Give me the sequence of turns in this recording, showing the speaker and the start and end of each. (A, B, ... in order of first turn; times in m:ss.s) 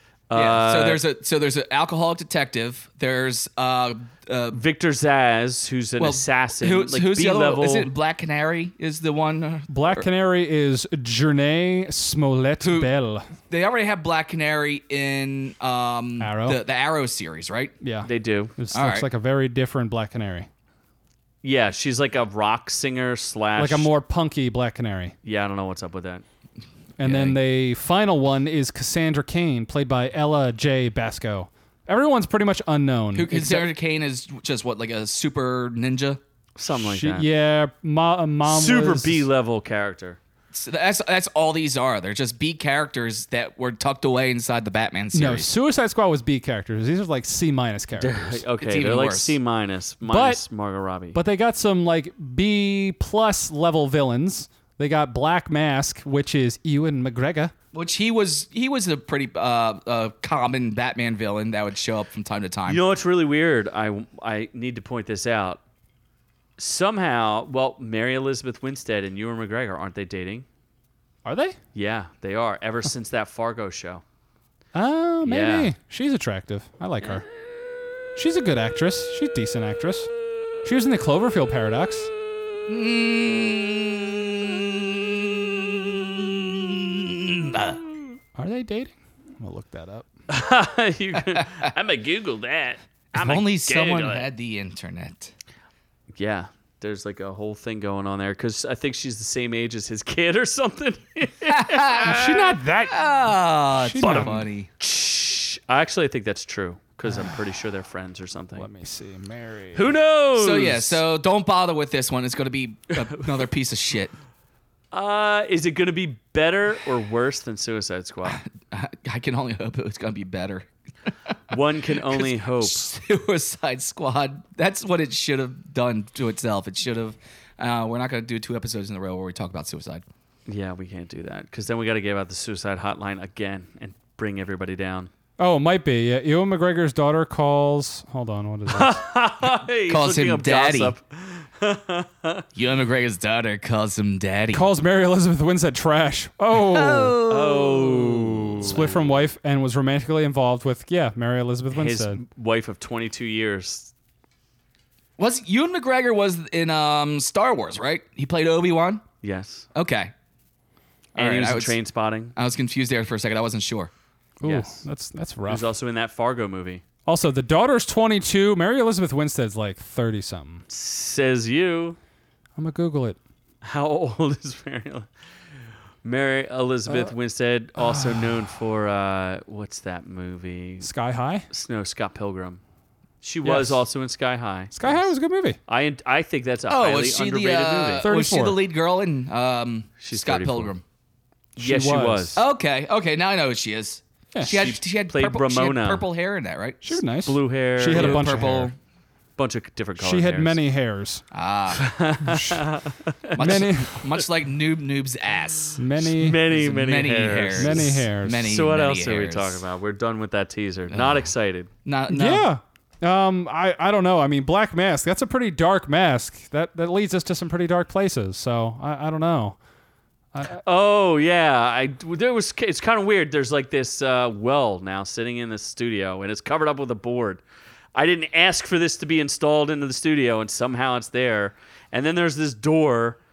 0:00.3-0:01.0 A
0:00.3-0:04.6 B
0:04.5-0:07.9 A
0:06.0-0:10.1 B
0:09.7-0:13.3 C
0:12.6-0:12.9 B
0:13.5-0:17.7 B
0:16.2-0:16.6 C
0:17.8-0:20.5 C
0:18.0-0:18.5 A
0:18.7-0:19.1 B
0:21.4-0:23.9 A
0:23.6-0:25.2 C
0:25.2-0:26.2 A
0:27.0-0:33.7 C
0:27.1-0:27.3 B
0:33.2-0:36.2 B
0:36.6-0:37.3 A
0:36.7-0:39.2 C
0:38.5-0:40.2 A
0:40.5-0:45.5 B
0:45.1-0:48.4 C
0:48.0-0:51.2 A
0:48.6-0:49.4 B
0:50.0-0:50.4 C
0:51.1-0:57.5 C
0:57.7-1:02.8 B
1:02.7-1:05.6 A
1:06.6-1:10.5 A
1:11.2-1:11.6 C
1:11.7-1:14.0 A
1:14.7-1:17.2 C
1:15.2-1:15.7 A
1:18.2-1:20.1 C
1:20.6-1:22.1 C
1:22.7-1:27.8 B
1:28.4-1:30.1 C
1:30.3-1:34.3 A
1:33.2-1:35.3 B
1:36.2-1:42.2 A
1:41.5-1:44.7 B
1:42.0-1:43.1 C
1:43.8-1:44.4 C
1:44.0-1:48.7 A
1:47.0-1:47.4 C
1:48.6-1:50.0 C
1:49.8-1:51.0 A
1:50.4-1:54.1 B
1:54.9-1:58.4 A
1:58.2-2:00.7 B
2:01.5-2:02.9 A
2:01.9-2:10.0 B
2:10.5-2:15.1 A
2:15.4-2:19.0 C
2:18.7-2:22.4 A
2:19.9-2:20.9 B
2:22.5-2:24.7 B
2:24.5-2:27.2 C
2:26.5-2:28.6 B
2:27.3-2:29.1 A
2:28.6-2:32.2 C
2:31.7-2:33.9 A
2:35.2-2:39.0 B
2:39.2-2:39.7 A
2:39.8-2:40.1 B
2:41.2-2:41.8 B
2:41.2-2:42.3 A
2:42.4-2:43.9 B
2:44.4-2:45.7 C
2:44.4-2:44.8 A
2:45.5-2:46.8 A
2:47.0-2:50.6 C
2:50.7-2:52.0 A
2:52.6-2:53.2 C
2:53.6-2:55.1 A
2:56.0-3:00.9 A
2:56.9-2:57.1 C
2:57.8-2:58.4 C
3:00.8-3:01.5 C
3:01.5-3:02.6 A
3:03.2-3:05.1 A
3:03.4-3:03.8 C
3:04.7-3:05.6 C
3:05.7-3:08.1 A
3:06.7-3:10.8 B
3:08.0-3:08.6 C
3:10.0-3:10.7 A
3:11.6-3:12.4 C
3:11.6-3:12.4 A
3:12.4-3:17.0 B
3:14.4-3:16.0 A
3:16.8-3:18.7 C
3:17.2-3:18.3 A
3:17.9-3:18.8 B
3:19.4-3:20.6 A
3:20.0-3:21.2 C
3:21.3-3:21.9 B
3:21.8-3:23.6 A
3:22.2-3:22.6 C
3:23.4-3:29.6 B
3:23.4-3:24.1 C
3:25.8-3:26.4 C
3:26.0-3:31.7 A
3:27.6-3:28.5 C
3:30.9-3:31.3 B
3:31.8-3:32.5 B
3:32.1-3:39.6 C
3:40.3-3:40.6 C
3:40.5-3:47.4 A
3:48.0-3:53.2 A